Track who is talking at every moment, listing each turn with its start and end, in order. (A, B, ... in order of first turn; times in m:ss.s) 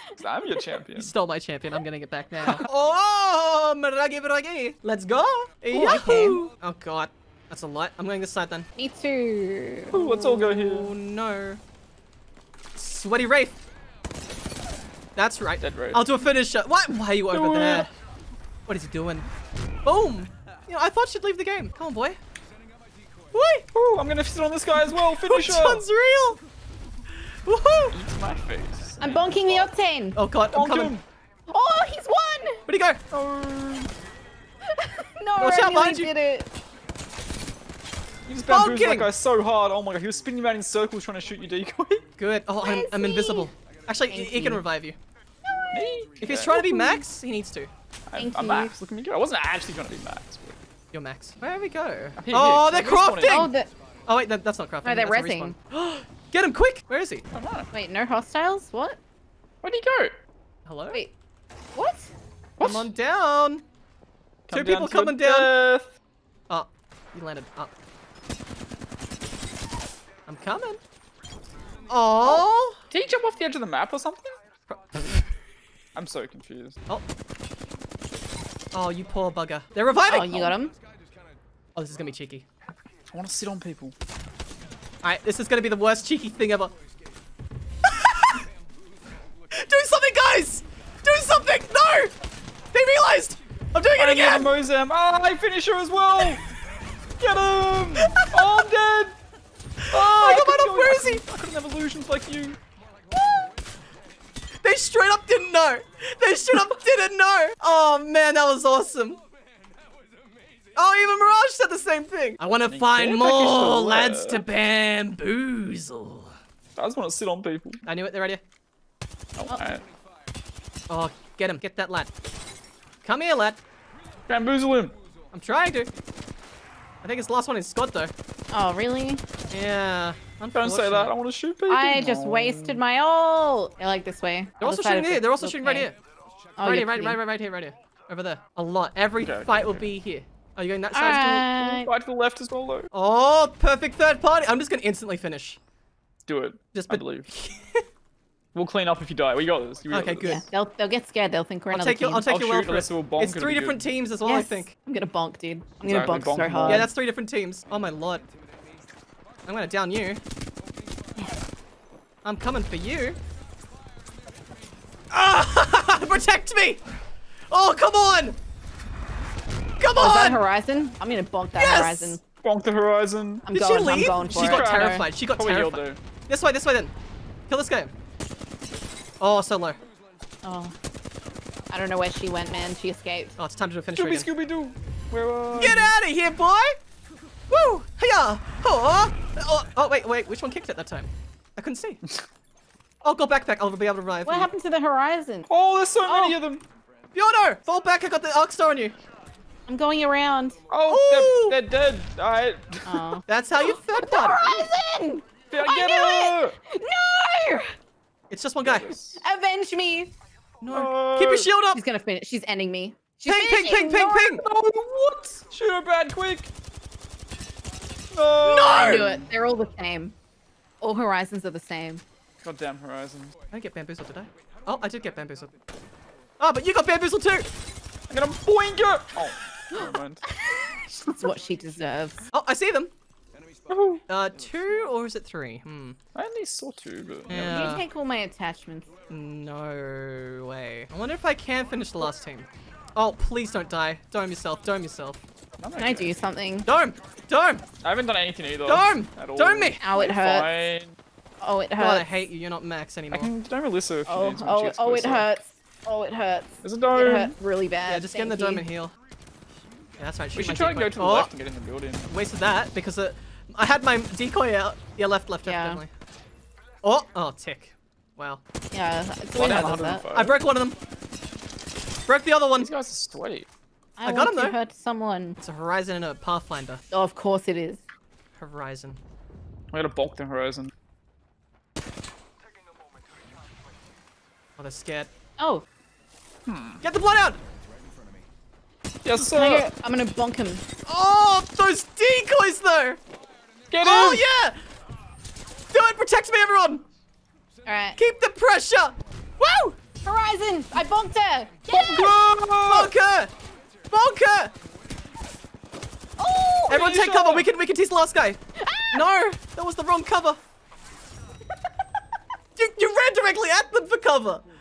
0:00.2-0:01.1 A
0:01.0-0:08.7 B
0:05.7-0:06.4 A
0:05.8-0:06.3 C
0:08.8-0:10.0 C
0:09.9-0:10.9 A
0:09.9-0:11.6 B
0:12.8-0:13.6 B
0:15.2-0:17.9 B
0:15.6-0:16.0 A
0:17.3-0:17.9 A
0:18.7-0:19.3 B
0:19.8-0:22.2 B
0:23.3-0:23.7 B
0:23.7-0:25.9 A
0:24.8-0:26.4 B
0:27.4-0:28.0 B
0:27.9-0:29.7 A
0:29.0-0:30.2 C
0:30.1-0:31.0 B
0:30.5-0:31.0 A
0:31.5-0:32.6 C
0:32.7-0:33.0 B
0:33.1-0:33.9 A
0:34.7-0:36.5 C
0:35.4-0:36.1 B
0:38.3-0:42.0 A
0:38.4-0:39.1 B
0:42.2-0:45.0 B
0:42.6-0:43.5 C
0:44.1-0:44.6 C
0:45.7-0:46.7 A
0:46.2-0:47.7 B
0:46.6-0:47.0 C
0:48.1-0:50.6 A
0:48.2-0:48.7 C
0:50.9-0:53.5 B
0:52.2-0:53.5 A
0:53.2-0:53.7 C
0:54.1-0:57.2 B
0:54.8-0:55.6 C
0:57.3-0:57.7 A
0:57.7-0:59.0 C
0:59.6-1:00.2 A
1:00.6-1:01.0 B
1:01.7-1:02.1 C
1:02.6-1:02.9 A
1:02.6-1:03.6 B
1:04.5-1:05.9 A
1:04.5-1:05.5 B
1:06.5-1:07.7 B
1:10.3-1:10.8 B
1:11.9-1:12.8 B
1:12.2-1:14.4 A
1:14.7-1:15.2 B
1:15.9-1:16.8 A
1:18.7-1:20.6 B
1:20.1-1:20.7 C
1:21.7-1:22.4 B
1:23.1-1:23.9 A
1:25.0-1:26.7 B
1:27.9-1:28.4 B
1:29.5-1:32.1 B
1:32.7-1:34.5 B
1:34.0-1:36.4 A
1:37.2-1:39.1 A
1:38.0-1:38.6 B
1:39.9-1:41.2 B
1:39.9-1:42.6 A
1:43.1-1:43.5 B
1:44.6-1:49.2 B
1:50.8-1:56.3 B
1:52.6-1:54.4 A
1:56.8-1:57.8 A
1:57.8-1:58.4 B
1:59.4-1:59.8 A
2:00.9-2:02.1 B
2:03.0-2:03.6 B
2:04.3-2:04.9 A
2:05.3-2:05.9 B
2:07.0-2:08.1 B
2:08.5-2:09.2 C
2:09.5-2:11.1 B
2:10.5-2:12.8 A
2:11.7-2:15.9 C
2:14.6-2:16.0 B
2:16.6-2:17.2 C
2:16.6-2:21.5 B
2:19.2-2:19.9 A
2:20.9-2:21.9 C
2:21.6-2:22.9 A
2:22.9-2:25.6 B
2:26.2-2:27.2 A
2:26.7-2:27.8 B
2:28.5-2:30.4 A
2:29.9-2:30.4 B
2:30.2-2:32.2 C
2:31.7-2:34.7 B
2:32.3-2:33.9 A
2:34.2-2:36.9 C
2:35.8-2:36.9 A
2:36.6-2:38.2 B
2:39.4-2:40.2 B
2:42.2-2:43.2 B
2:45.1-2:46.8 B
2:47.5-2:48.4 B
2:49.8-2:50.4 B
2:49.9-2:52.2 C
2:51.6-2:52.2 B
2:52.4-2:53.5 A
2:53.5-2:55.1 C
2:53.5-2:56.9 B
2:54.3-2:56.0 A
2:57.5-2:57.9 B
2:59.2-2:59.8 B
3:00.4-3:00.7 C
3:01.7-3:03.4 C
3:03.4-3:04.3 B
3:04.0-3:05.9 A
3:05.5-3:06.8 B
3:07.5-3:12.0 B
3:13.0-3:14.5 B
3:14.2-3:15.5 C
3:15.5-3:16.6 A
3:16.0-3:16.4 B
3:17.1-3:18.9 B
3:19.7-3:20.6 C
3:20.7-3:23.1 A
3:20.8-3:21.6 B
3:22.8-3:27.7 C
3:23.3-3:24.6 B
3:25.5-3:26.6 A
3:28.3-3:28.9 B
3:28.6-3:29.2 A
3:29.2-3:30.1 C
3:30.6-3:31.8 B
3:30.7-3:31.5 A
3:31.7-3:34.3 C
3:33.3-3:34.4 B
3:34.3-3:36.5 A
3:38.1-3:39.2 A
3:38.4-3:39.2 B
3:38.6-3:40.1 C
3:40.8-3:42.0 C
3:42.4-3:43.3 A
3:43.5-3:45.5 B
3:46.4-3:47.5 B
3:48.1-3:50.2 A
3:49.8-3:52.3 C
3:52.3-3:52.9 B
3:53.7-3:54.0 A
3:54.1-3:56.0 B
3:56.1-3:57.8 A
3:57.3-3:57.8 B
3:57.5-3:58.9 C
3:59.1-4:05.2 B
4:05.6-4:06.2 A
4:05.8-4:06.7 C
4:06.6-4:07.6 B
4:07.8-4:11.0 A
4:08.6-4:09.8 B
4:09.8-4:10.6 C
4:11.4-4:12.3 C
4:11.8-4:13.3 B
4:13.1-4:15.3 A
4:14.1-4:18.6 C
4:16.6-4:17.3 A
4:17.8-4:18.9 B
4:20.0-4:21.3 B
4:20.3-4:22.1 A
4:22.1-4:25.9 B
4:25.4-4:25.8 C
4:26.8-4:28.4 B
4:28.7-4:30.0 C
4:29.3-4:30.4 A
4:30.1-4:30.8 B
4:32.1-4:32.7 B
4:32.6-4:33.5 A
4:34.0-4:35.4 C
4:34.0-4:34.6 B
4:35.4-4:36.8 B
4:36.9-4:37.8 C
4:38.4-4:39.0 B
4:39.7-4:40.7 A
4:44.6-4:45.1 B
4:45.4-4:45.6 C
4:46.4-4:46.8 A
4:46.8-4:47.4 B
4:49.0-4:49.7 A
4:49.1-4:50.6 C
4:50.8-4:53.0 B
4:53.7-4:54.2 A
4:53.8-4:54.6 B
4:55.7-4:56.8 B
4:57.6-4:58.0 C
4:58.0-4:59.8 B
5:00.0-5:02.1 C
5:01.7-5:02.9 A
5:01.7-5:02.1 B
5:02.6-5:03.3 B
5:03.9-5:04.5 B
5:06.2-5:06.8 C
5:06.7-5:08.4 B
5:06.7-5:07.5 A
5:08.6-5:09.1 C
5:08.9-5:10.4 B
5:12.6-5:14.4 B